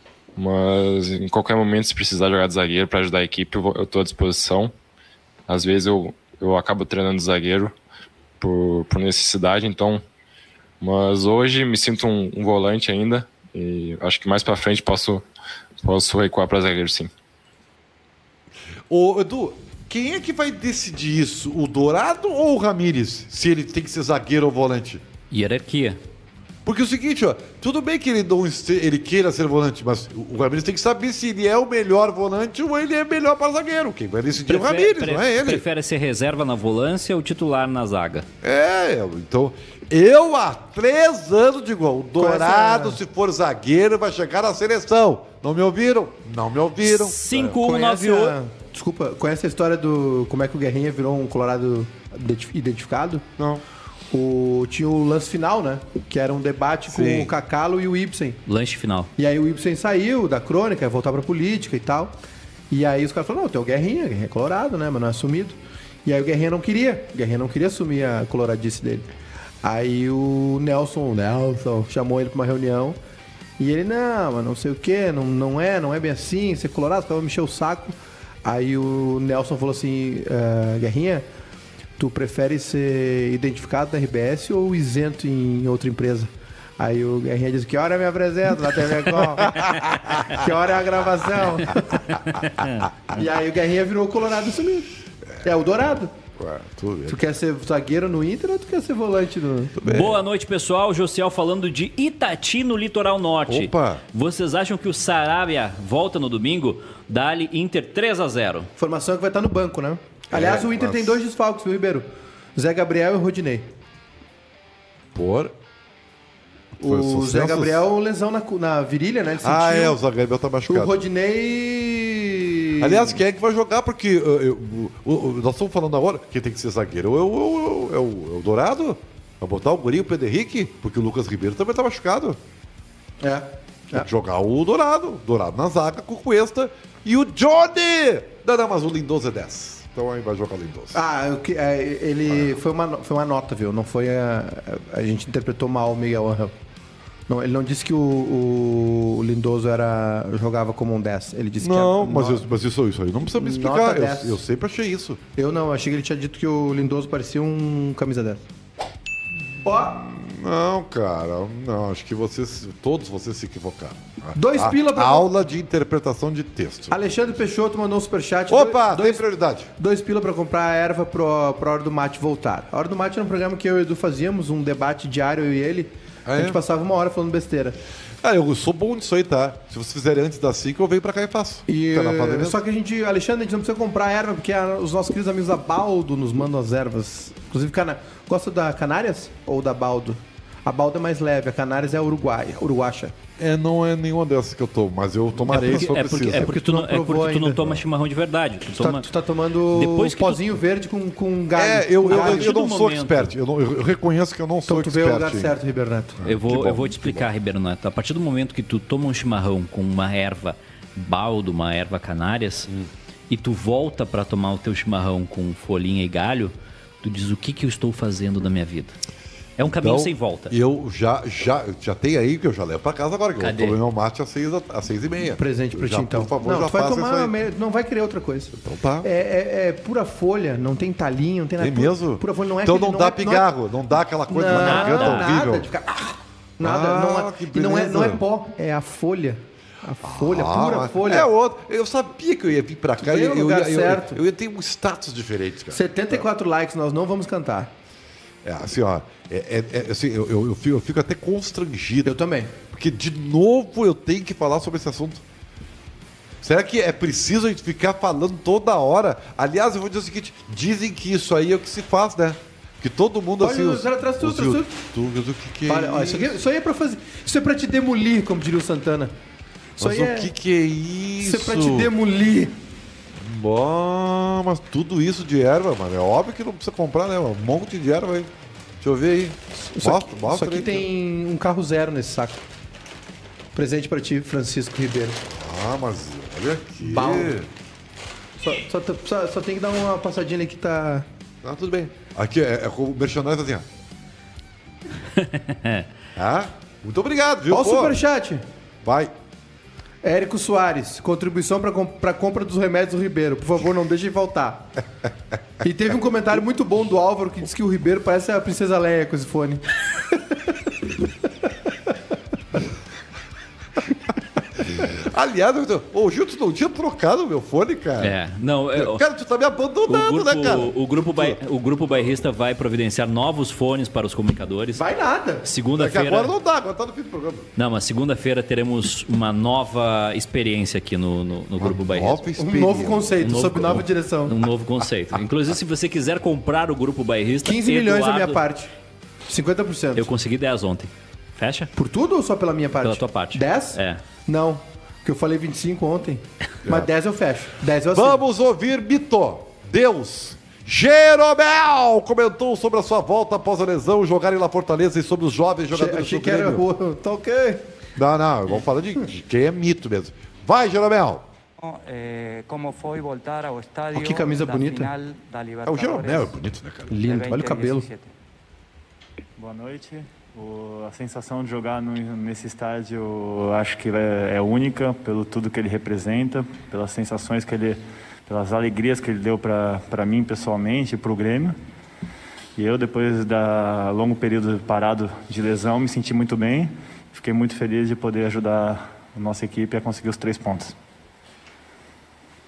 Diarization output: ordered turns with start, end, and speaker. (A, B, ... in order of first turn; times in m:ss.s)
0:00.4-0:04.7 A
0:05.5-0:07.7 A
0:08.4-0:10.0 A
0:10.8-0:15.2 A
0:15.8-0:17.1 A
0:18.9-0:25.0 B
0:25.3-0:26.0 C
0:26.6-0:35.6 B
0:34.5-0:38.3 C
0:38.4-0:47.6 B
0:42.2-0:43.0 D
0:46.8-0:48.3 C
0:47.6-0:53.3 D
0:53.4-0:53.6 B
0:54.1-0:58.4 D
0:56.9-0:57.3 B
0:58.5-0:59.1 C
0:59.2-1:02.1 D
1:02.7-1:09.1 D
1:09.6-1:13.0 D
1:13.6-1:21.2 D
1:22.0-1:32.0 D
1:29.4-1:30.2 B
1:32.3-1:32.8 C
1:33.1-1:36.1 D
1:36.4-1:37.2 B
1:37.1-1:39.8 D
1:39.8-1:40.2 B
1:39.8-1:48.7 C
1:43.5-1:44.0 B
1:48.8-1:53.7 D
1:50.3-1:51.2 B
1:55.1-1:55.5 B
1:56.8-2:00.0 D
1:56.8-1:57.9 B
1:59.4-2:01.0 B
2:00.7-2:03.2 D
2:02.8-2:12.4 B
2:13.2-2:14.1 D
2:13.9-2:21.0 B
2:20.9-2:26.5 D
2:27.3-2:32.5 D
2:31.6-2:35.2 B
2:33.3-2:34.4 D
2:35.4-2:38.4 D
2:39.6-2:40.0 D
2:39.7-2:47.2 B
2:44.3-2:45.3 D
2:46.9-2:49.2 D
2:48.5-2:49.7 B
2:49.8-2:57.8 D
2:56.2-2:56.6 B
2:58.2-3:02.6 B
3:01.7-3:13.1 D
3:13.4-3:16.5 B
3:15.5-3:17.6 D
3:15.5-3:19.1 C
3:18.8-3:22.5 D
3:19.7-3:20.5 C
3:21.5-3:25.5 B
3:22.1-3:23.3 C
3:24.7-3:26.2 D
3:26.2-3:27.3 B
3:26.3-3:32.7 C
3:33.3-3:39.0 C
3:39.6-3:40.6 C
3:39.6-3:47.3 B
3:43.4-3:43.8 C
3:45.4-3:53.5 D
3:48.6-3:49.1 B
3:51.6-3:55.7 B
3:54.3-4:01.3 D
3:54.5-3:55.3 C
3:56.6-3:58.2 B
4:00.0-4:06.2 B
4:03.0-4:04.2 D
4:05.7-4:07.7 D
4:08.4-4:12.1 B
4:12.0-4:12.5 D
4:12.7-4:15.2 B
4:16.4-4:26.4 B
4:23.4-4:24.8 D
4:25.7-4:29.1 D
4:29.8-4:30.3 D
4:29.8-4:31.9 B
4:31.2-4:32.6 D
4:33.2-4:40.9 B
4:39.6-4:42.4 D
4:43.6-4:45.2 D
4:45.3-4:47.5 B
4:46.8-4:47.3 D
4:48.4-4:51.0 D
4:51.4-4:53.6 B
4:55.1-4:55.9 C
4:56.2-4:58.0 B
4:57.5-4:58.4 D
4:58.8-4:59.1 B
5:00.0-5:04.7 D
5:05.6-5:10.4 D
5:14.6-5:18.2 B
5:18.0-5:19.0 C
5:18.7-5:21.4 B
5:19.9-5:24.8 C
5:24.8-5:25.4 D
5:25.4-5:26.3 C
5:25.8-5:27.5 B
5:27.6-5:32.2 C
5:31.6-5:33.5 B
5:32.4-5:34.3 D
5:33.2-5:38.4 C
5:37.4-5:38.7 D
5:39.3-5:40.0 D
5:40.0-5:41.7 C
5:41.8-5:48.2 D
5:42.8-5:44.0 C
5:47.9-5:56.6 B
5:55.7-5:57.6 D
5:58.0-6:01.3 B
6:01.6-6:06.4 E
6:03.9-6:04.9 D
6:05.6-6:07.0 B
6:06.9-6:07.9 D
6:07.0-6:08.1 E
6:09.4-6:21.6 F
6:22.6-6:30.7 F